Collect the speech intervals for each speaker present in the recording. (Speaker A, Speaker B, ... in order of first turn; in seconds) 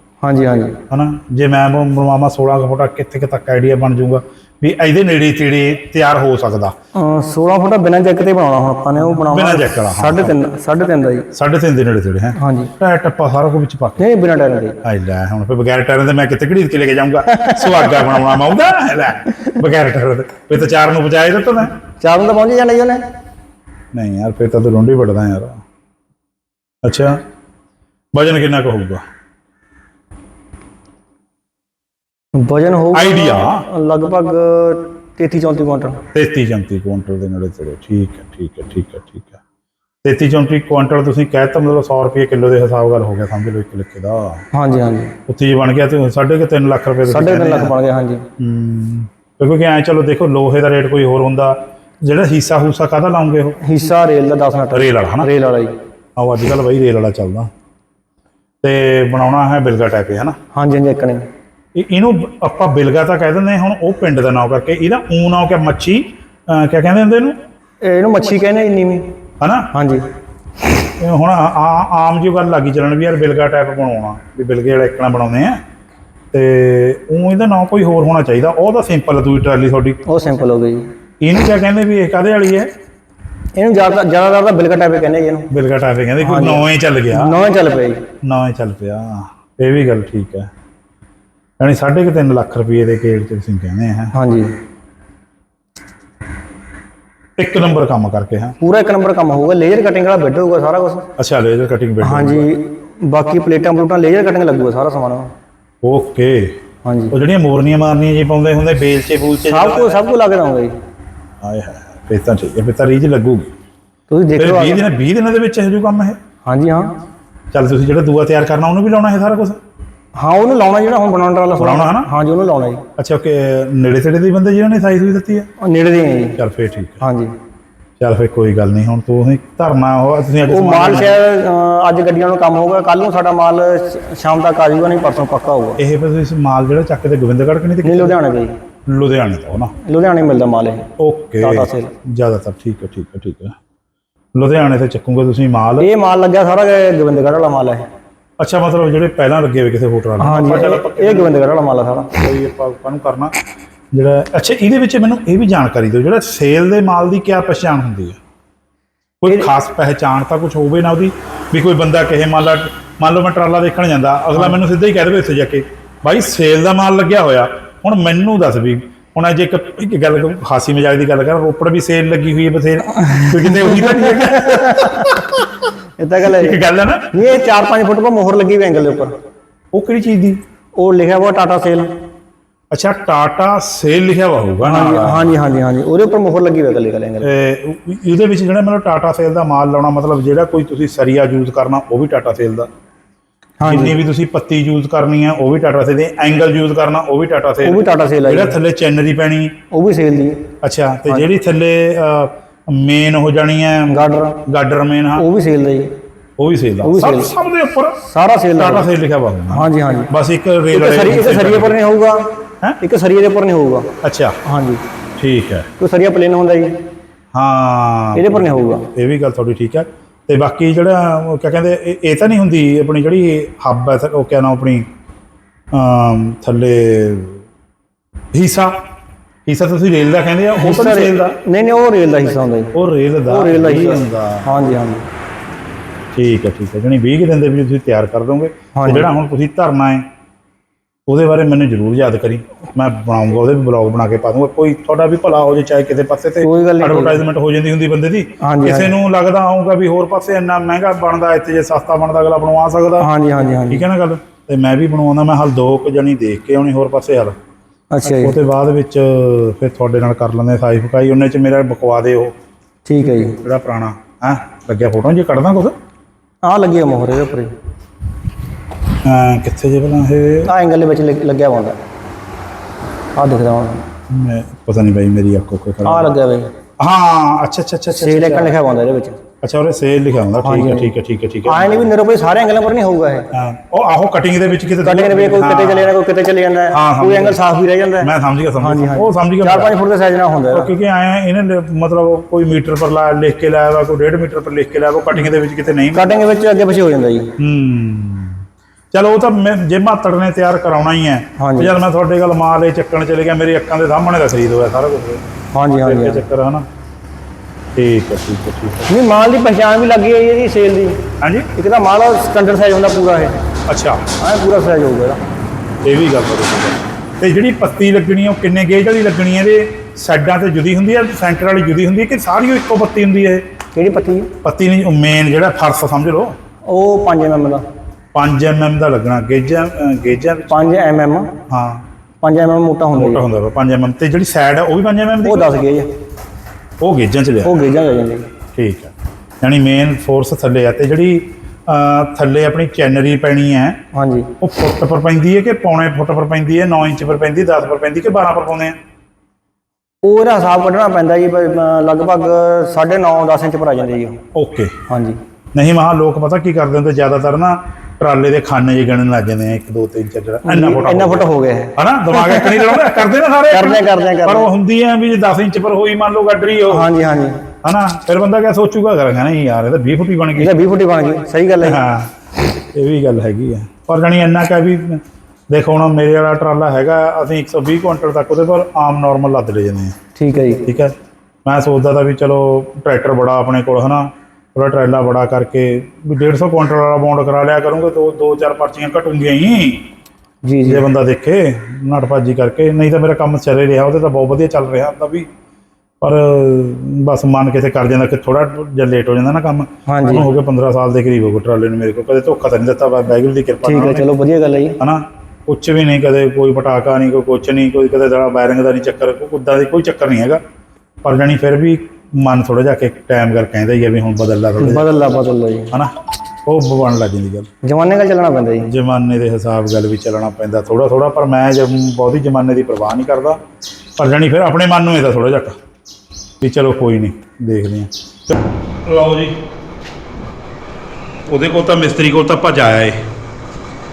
Speaker A: 0.2-0.8, 6.9-11.3, 12.4-12.7, 14.0-14.8, 17.3-18.1, 22.0-23.0, 32.3-36.0, 44.5-45.1, 47.1-48.2, 53.6-55.8, 60.5-61.3, 67.8-69.1, 69.7-70.1, 80.0-80.9, 83.5-85.5, 86.2-88.0, 94.1-94.5, 98.6-101.1, 102.0-105.3, 106.8-107.1, 109.4-110.7, 114.1-114.8, 116.5-116.9, 120.2-122.8, 125.6-126.4, 127.0-127.3, 130.5-135.8, 137.8-138.5, 139.8-140.9, 141.4-141.9, 145.8-147.8, 150.2-152.1, 173.7-175.1, 176.0-176.6, 177.1-179.1, 180.8-181.9, 184.6-187.3, 193.6-194.0, 197.6-198.6, 199.7-200.5, 203.9-204.4, 205.2-205.9, 206.8-207.3, 208.0-208.9, 209.5-210.1, 210.7-212.3, 212.8-213.9, 214.4-214.8, 215.8-216.8, 218.1-218.9, 230.6-232.7, 233.3-235.0, 238.7-239.1, 246.4-247.2, 248.4-248.9, 253.0-253.8, 257.9-258.4, 262.9-263.4, 266.4-267.5, 270.4-271.8, 273.1-273.8, 275.9-276.5, 277.9-279.2, 280.4-280.9, 281.5-283.3, 284.8-290.7, 295.9-297.3, 301.4-301.7, 305.5-306.2, 308.9-313.4, 314.2-315.2, 323.7-324.3, 326.6-327.6, 330.5-331.3, 332.2-333.2, 335.2-335.9, 337.4-338.3, 343.9-344.3, 350.0-354.2, 354.9-355.2, 360.4-363.0, 363.5-364.5, 366.7-367.4, 370.4-371.8, 380.2-380.6, 390.4-390.8, 399.9-400.3, 403.6-404.8, 414.6-415.7, 417.6-418.7
Speaker B: 0.9-6.7, 9.2-10.3, 11.3-14.0, 14.8-21.7, 23.9-25.6, 26.8-27.2, 28.1-29.0, 32.9-33.6, 36.1-39.4, 40.0-44.4, 45.3-47.7, 48.4-53.6, 54.7-55.3, 56.1-57.5, 58.6-60.4, 61.7-67.4, 69.4-69.7, 71.0-75.6, 76.3-80.0, 81.2-82.7, 85.5-87.3, 88.2-90.5, 91.6-94.1, 97.4-98.5, 101.2-102.5, 105.8-106.6, 107.1-109.9, 111.4-113.5, 114.4-116.2, 117.5-119.6, 121.6-122.1, 123.0-125.5, 126.4-127.0, 128.0-131.2, 135.8-138.2, 138.9-139.7, 141.0-143.6, 144.3-145.9, 148.4-151.3, 152.2-153.3, 153.9-158.2, 159.2-175.4, 176.3-177.2, 179.7-180.4, 182.7-185.3, 187.2-192.7, 193.6-199.6, 200.6-205.2, 206.4-208.0, 208.6-211.8, 214.0-214.4, 215.2-215.7, 217.3-224.9, 225.7-227.4, 228.3-228.8, 229.4-231.4, 232.7-234.5, 236.1-240.1, 241.1-253.1, 253.7-257.4, 258.1-262.3, 263.4-265.7, 269.0-270.5, 274.1-276.1, 276.8-278.5, 279.4-281.9, 283.3-285.9, 286.7-287.4, 288.0-289.7, 290.5-296.0, 297.4-298.4, 298.9-305.2, 305.8-306.7, 307.7-308.9, 311.2-311.5, 313.7-314.0, 315.8-323.4, 324.4-326.4, 328.1-330.7, 331.5-331.8, 332.9-335.5, 336.8-337.5, 338.5-343.8, 344.4-348.8, 354.3-354.8, 355.5-366.9, 367.6-370.5, 371.6-372.1, 372.7-380.0, 380.6-380.9, 381.4-389.9, 390.6-395.3, 396.0-404.1, 404.8-410.4, 411.0-414.8, 416.4-417.5, 418.7-423.4, 424.0-425.6, 426.4-429.4, 431.3-433.0